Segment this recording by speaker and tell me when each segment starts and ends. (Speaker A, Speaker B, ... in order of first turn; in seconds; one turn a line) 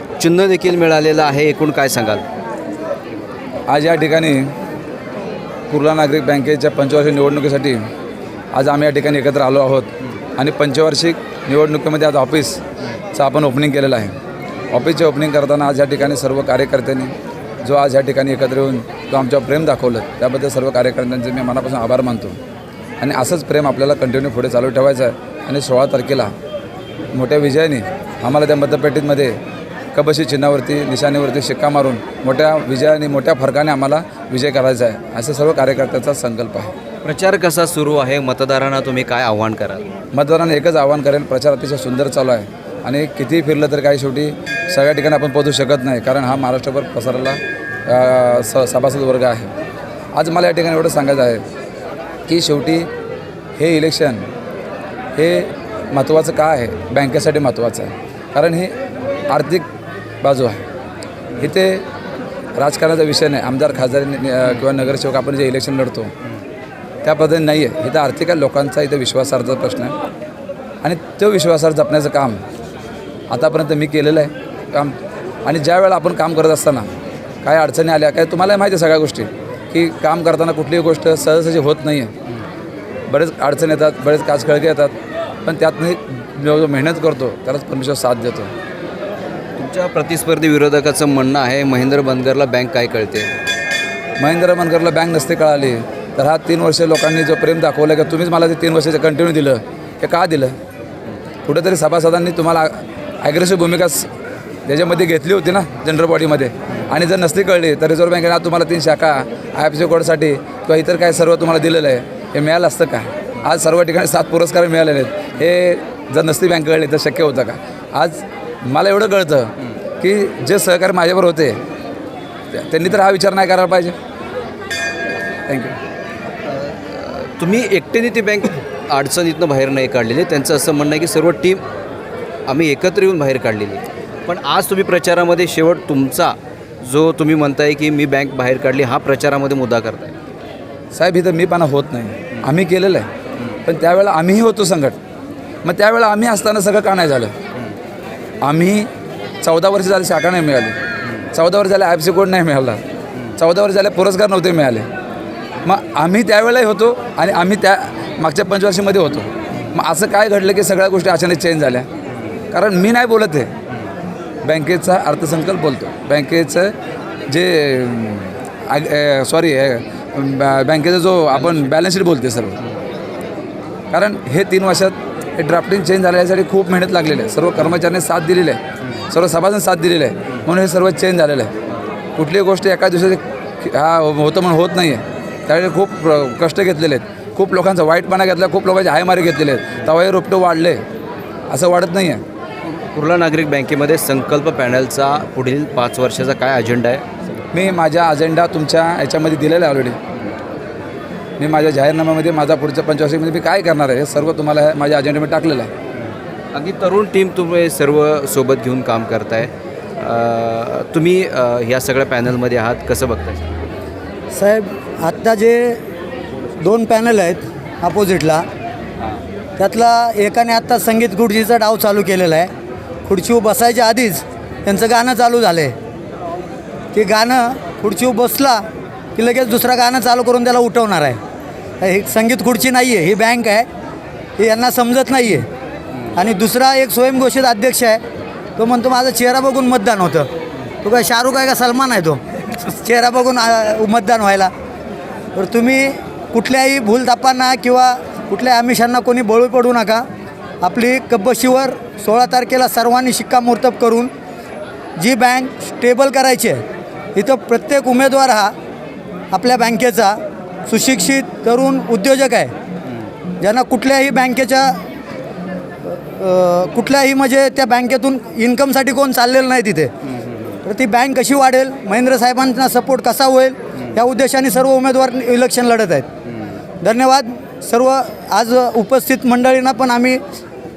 Speaker A: 0.2-2.2
Speaker B: 3.7-4.5
Speaker B: 5.7-7.9
Speaker B: 8.5-12.6
Speaker B: 13.1-14.2
Speaker B: 14.7-22.4
Speaker B: 23.0-26.3
Speaker B: 27.1-29.4
Speaker B: 29.9-36.7
Speaker A: 37.0-39.9
Speaker B: 40.1-49.5
Speaker B: 50.1-51.4
Speaker B: 52.3-52.9
Speaker B: 53.6-54.3
Speaker B: 55.2-58.8
Speaker B: 59.3-59.7
Speaker B: 60.2-60.6
Speaker B: 61.4-61.8
Speaker B: 62.6-66.1
Speaker B: 67.0-69.9
Speaker B: 70.8-72.4
Speaker B: 73.3-76.9
Speaker B: 77.4-82.1
Speaker B: 83.1-88.5
Speaker A: 89.6-93.3
Speaker B: 94.2-100.5
Speaker B: 101.5-104.1
Speaker B: 104.7-121.6
Speaker B: 122.5-124.0
Speaker B: 125.5-125.8
Speaker A: 126.5-131.6
Speaker A: 132.5-140.1
Speaker B: 140.9-143.1
Speaker B: 143.7-145.0
Speaker B: 145.6-147.4
Speaker B: 148.4-148.9
Speaker B: 149.4-150.8
Speaker B: 151.3-152.8
Speaker B: 153.4-154.9
Speaker B: 155.6-161.9
Speaker B: 162.5-163.5
Speaker B: 164.4-166.8
Speaker B: 167.3-172.6
Speaker B: 173.9-181.5
Speaker B: 182.2-190.8
Speaker B: 191.5-192.2
Speaker A: 192.9-197.1
Speaker B: 197.5-200.0
Speaker B: 201.4-205.7
Speaker A: 206.5-213.6
Speaker C: 214.3-215.8
Speaker C: 216.6-218.4
Speaker C: 219.6-222.5
Speaker C: 223.1-225.8
Speaker C: 226.9-231.2
Speaker C: 231.8-233.7
Speaker C: 234.4-235.5
Speaker C: 236.1-238.0
Speaker C: 238.6-240.3
Speaker C: 240.8-244.5
Speaker C: 245.3-250.1
Speaker C: 250.6-254.1
Speaker C: 255.0-256.6
Speaker C: 257.1-258.5
Speaker C: 259.3-262.5
Speaker C: 263.4-264.8
Speaker C: 265.9-269.9
Speaker C: 270.6-276.1
Speaker C: 276.8-280.2